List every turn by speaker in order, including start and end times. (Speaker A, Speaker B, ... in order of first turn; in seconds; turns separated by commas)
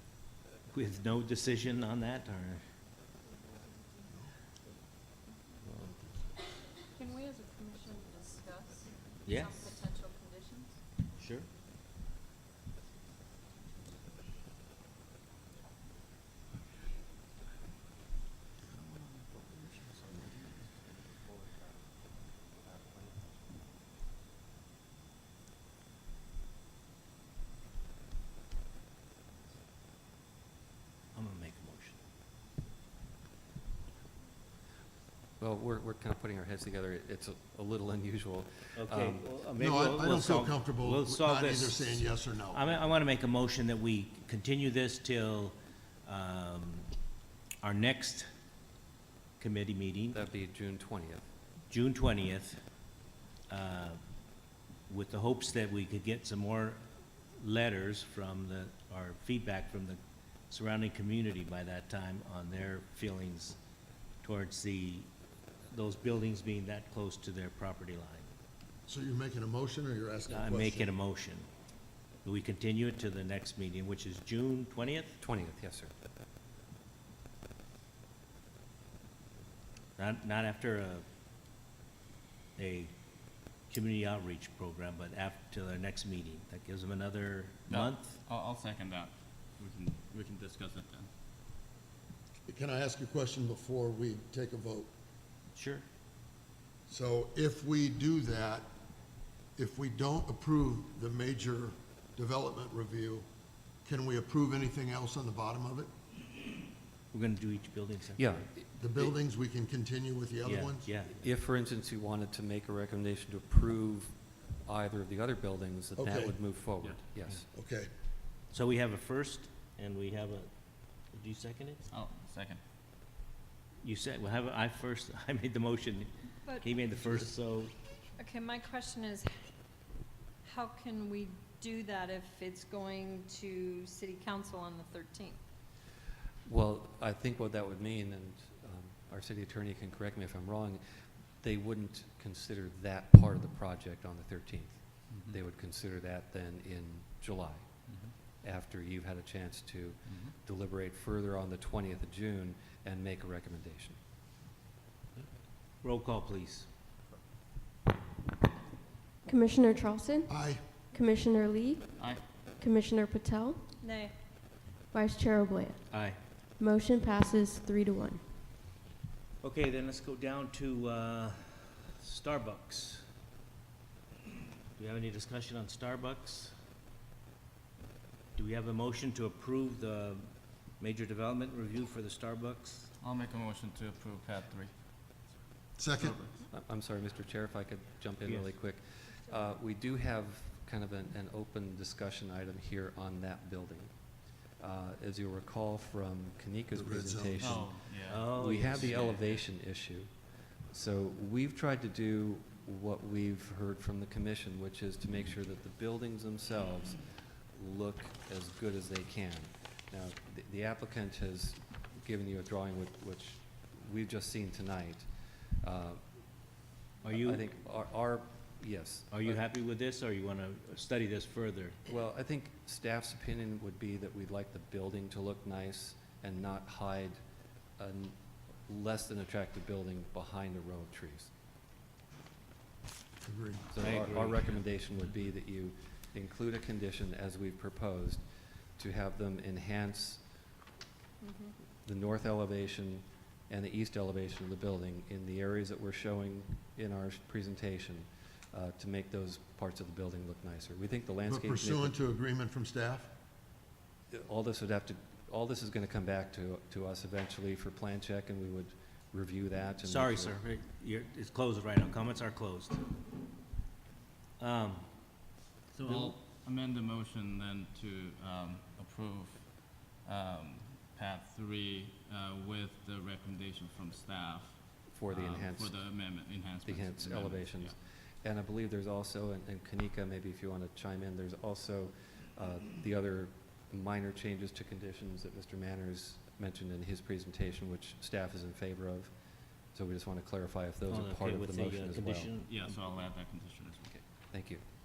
Speaker A: 0.7-2.6, Speaker A: 5.6-6.1, Speaker B: 6.9-10.8, Speaker A: 9.2-9.7, Speaker A: 11.2-11.5, Speaker C: 18.7-19.8, Speaker A: 31.1-32.0, Speaker D: 35.4-39.3, Speaker A: 38.8-46.9, Speaker E: 39.5-42.7, Speaker A: 47.6-48.3, Speaker A: 49.4-50.2, Speaker D: 50.1-51.2, Speaker A: 51.7-52.6, Speaker A: 53.5-54.0, Speaker A: 54.9-56.8, Speaker A: 57.4-60.0, Speaker A: 60.5-63.6, Speaker A: 64.2-65.1, Speaker A: 65.7-68.3, Speaker E: 68.8-70.9, Speaker A: 70.3-71.5, Speaker A: 72.2-75.2, Speaker D: 75.2-75.9, Speaker A: 80.0-81.0, Speaker A: 82.6-82.9, Speaker A: 83.7-88.2, Speaker C: 87.7-91.1, Speaker E: 92.5-94.9, Speaker A: 95.5-95.8, Speaker E: 96.9-98.7, Speaker E: 99.5-103.2, Speaker E: 103.8-105.9, Speaker A: 107.1-108.5, Speaker D: 108.2-109.1, Speaker E: 108.8-111.0, Speaker A: 110.4-111.3, Speaker D: 111.2-117.5, Speaker E: 115.9-116.4, Speaker E: 117.5-117.9, Speaker A: 118.5-120.5, Speaker A: 121.0-121.8, Speaker C: 121.9-122.6, Speaker A: 123.8-127.7, Speaker B: 128.2-129.3, Speaker B: 130.4-135.4, Speaker D: 136.4-140.8, Speaker D: 141.4-154.0, Speaker C: 145.1-145.4, Speaker C: 150.1-150.3, Speaker A: 155.8-156.7, Speaker F: 159.2-160.3, Speaker E: 160.3-160.6, Speaker F: 160.9-162.0, Speaker C: 162.0-162.2, Speaker F: 162.6-163.6, Speaker B: 163.8-164.1, Speaker F: 164.9-165.9, Speaker A: 165.9-166.2, Speaker F: 166.6-168.2, Speaker A: 169.4-173.1, Speaker A: 174.8-176.6, Speaker A: 178.3-182.9, Speaker C: 183.0-184.7, Speaker E: 185.8-186.2, Speaker C: 186.0-186.4, Speaker D: 186.5-193.9, Speaker A: 188.2-188.5, Speaker D: 194.6-200.1, Speaker E: 196.7-197.6, Speaker C: 197.4-199.4, Speaker A: 198.1-199.1, Speaker D: 200.7-215.1, Speaker D: 215.6-216.0, Speaker A: 217.0-217.4, Speaker D: 217.0-219.4, Speaker A: 219.1-221.8, Speaker D: 221.9-227.2, Speaker D: 227.8-231.3, Speaker E: 233.2-233.7, Speaker D: 233.7-238.2, Speaker A: 233.8-234.4, Speaker D: 238.8-240.2, Speaker B: 241.2-241.5, Speaker D: 241.8-251.9, Speaker E: 251.2-253.1, Speaker D: 254.1-260.4, Speaker A: 259.8-262.8, Speaker A: 264.4-264.9, Speaker C: 265.7-277.7, Speaker A: 265.9-266.1, Speaker D: 274.9-275.9, Speaker D: 276.6-289.1, Speaker D: 289.7-292.3, Speaker A: 290.9-292.5, Speaker C: 292.5-293.9, Speaker D: 293.9-294.6